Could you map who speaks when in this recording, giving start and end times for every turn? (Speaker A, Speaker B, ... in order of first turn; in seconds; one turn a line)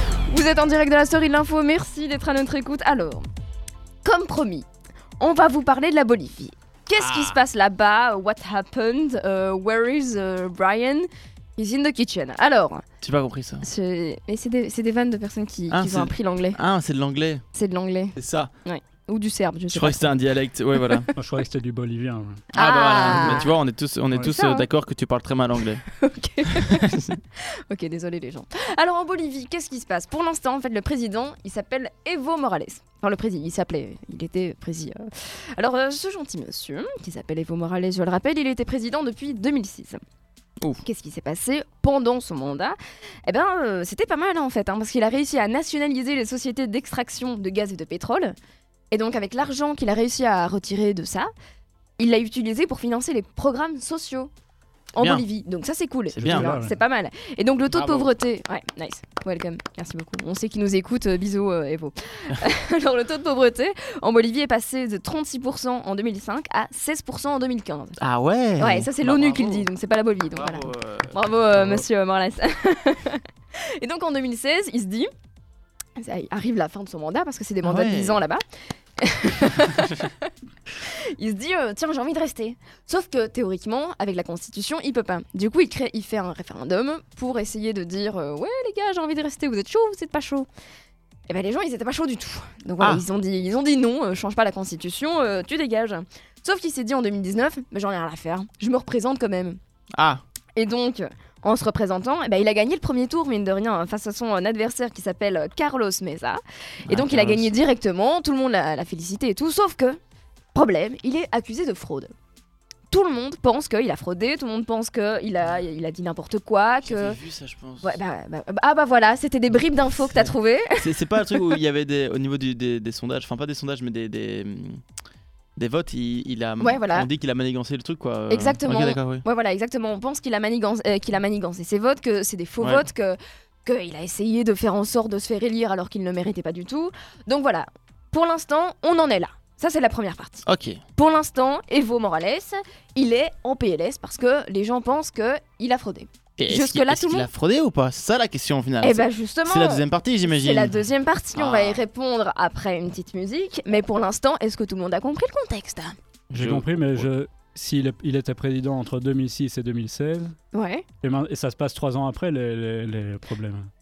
Speaker A: 0.3-3.2
Speaker A: 4.0-4.7
Speaker A: 5.2-12.8
Speaker B: 7.0-7.4
Speaker B: 13.0-13.7
Speaker A: 13.6-16.6
Speaker B: 15.7-17.4
Speaker A: 17.6-20.2
Speaker B: 18.2-18.5
Speaker B: 19.7-21.1
Speaker A: 20.8-21.1
Speaker C: 21.2-22.4
Speaker A: 22.5-23.5
Speaker B: 22.5-25.8
Speaker C: 23.0-23.4
Speaker A: 24.2-24.7
Speaker A: 25.9-26.9
Speaker B: 26.6-27.2
Speaker A: 27.7-40.0
Speaker A: 40.8-48.4
Speaker A: 48.9-51.3
Speaker A: 52.0-54.3
Speaker A: 54.9-68.0
Speaker B: 55.0-55.2
Speaker B: 56.1-56.5
Speaker C: 56.2-56.7
Speaker B: 57.7-58.1
Speaker B: 68.0-69.7
Speaker A: 68.6-73.2
Speaker B: 70.3-71.8
Speaker A: 73.8-75.1
Speaker A: 76.0-78.4
Speaker B: 77.6-78.2
Speaker A: 79.0-80.1
Speaker A: 80.8-90.5
Speaker A: 91.3-99.6
Speaker B: 100.0-100.2
Speaker A: 100.6-110.0
Speaker B: 106.9-107.5
Speaker A: 110.5-112.1
Speaker A: 112.9-117.2
Speaker B: 116.8-118.0
Speaker A: 117.8-121.5
Speaker B: 120.8-124.8
Speaker B: 125.6-129.2
Speaker A: 126.6-127.1
Speaker A: 128.3-147.3
Speaker B: 140.4-140.8
Speaker B: 146.4-150.8
Speaker A: 148.8-155.9
Speaker B: 151.3-151.8
Speaker B: 156.3-157.1
Speaker C: 156.3-160.3
Speaker A: 160.5-160.8
Speaker C: 161.0-163.7